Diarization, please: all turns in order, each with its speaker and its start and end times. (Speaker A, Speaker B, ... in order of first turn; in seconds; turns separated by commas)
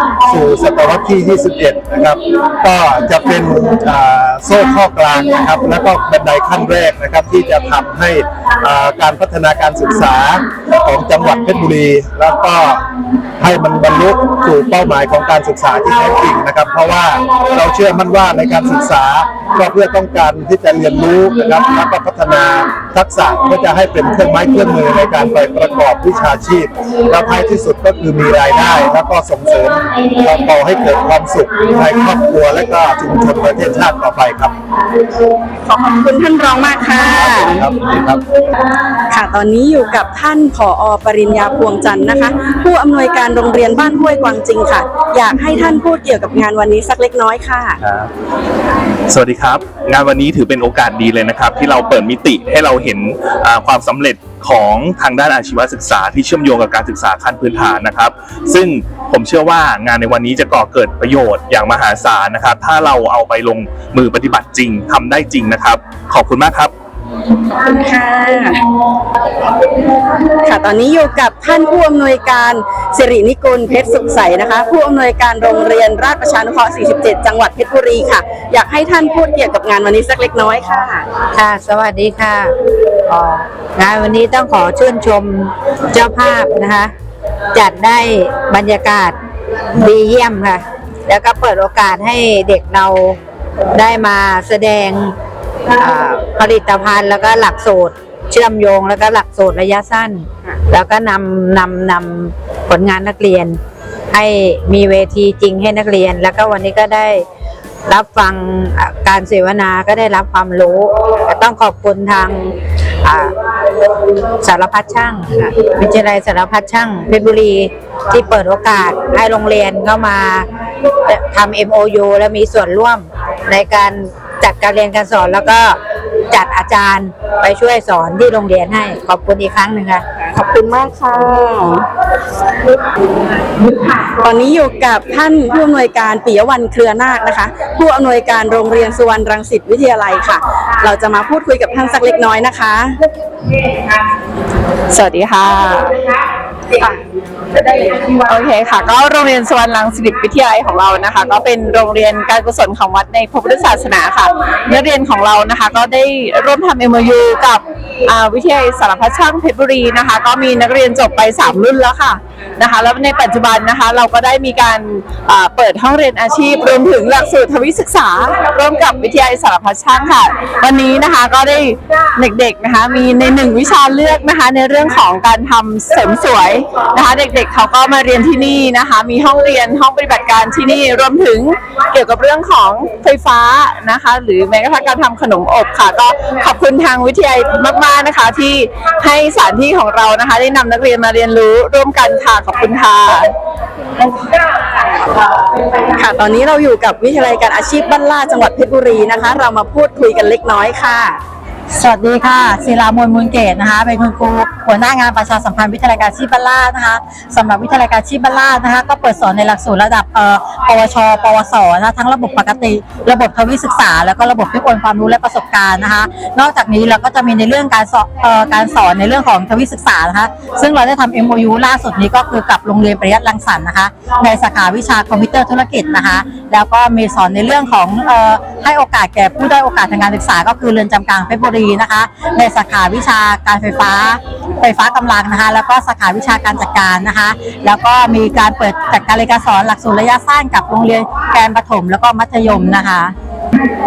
Speaker A: 0.2-34.6, Speaker B: 35.6-37.6, Speaker A: 37.0-38.2, Speaker B: 39.1-47.8, Speaker C: 47.8-48.1, Speaker C: 49.1-66.7, Speaker B: 67.5-68.6, Speaker B: 70.3-81.1, Speaker D: 81.3-82.5, Speaker D: 83.1-86.9, Speaker D: 87.5-89.2, Speaker D: 89.8-93.2, Speaker D: 93.7-95.1, Speaker D: 95.8-103.6, Speaker D: 104.1-107.2, Speaker D: 107.9-112.5, Speaker D: 113.0-113.3, Speaker D: 114.4-120.5, Speaker D: 121.0-125.8, Speaker D: 126.3-130.0, Speaker B: 130.2-131.8, Speaker B: 133.7-143.0, Speaker E: 144.9-145.9, Speaker E: 148.2-193.3, Speaker B: 194.1-195.1, Speaker B: 195.8-201.2, Speaker F: 201.7-243.1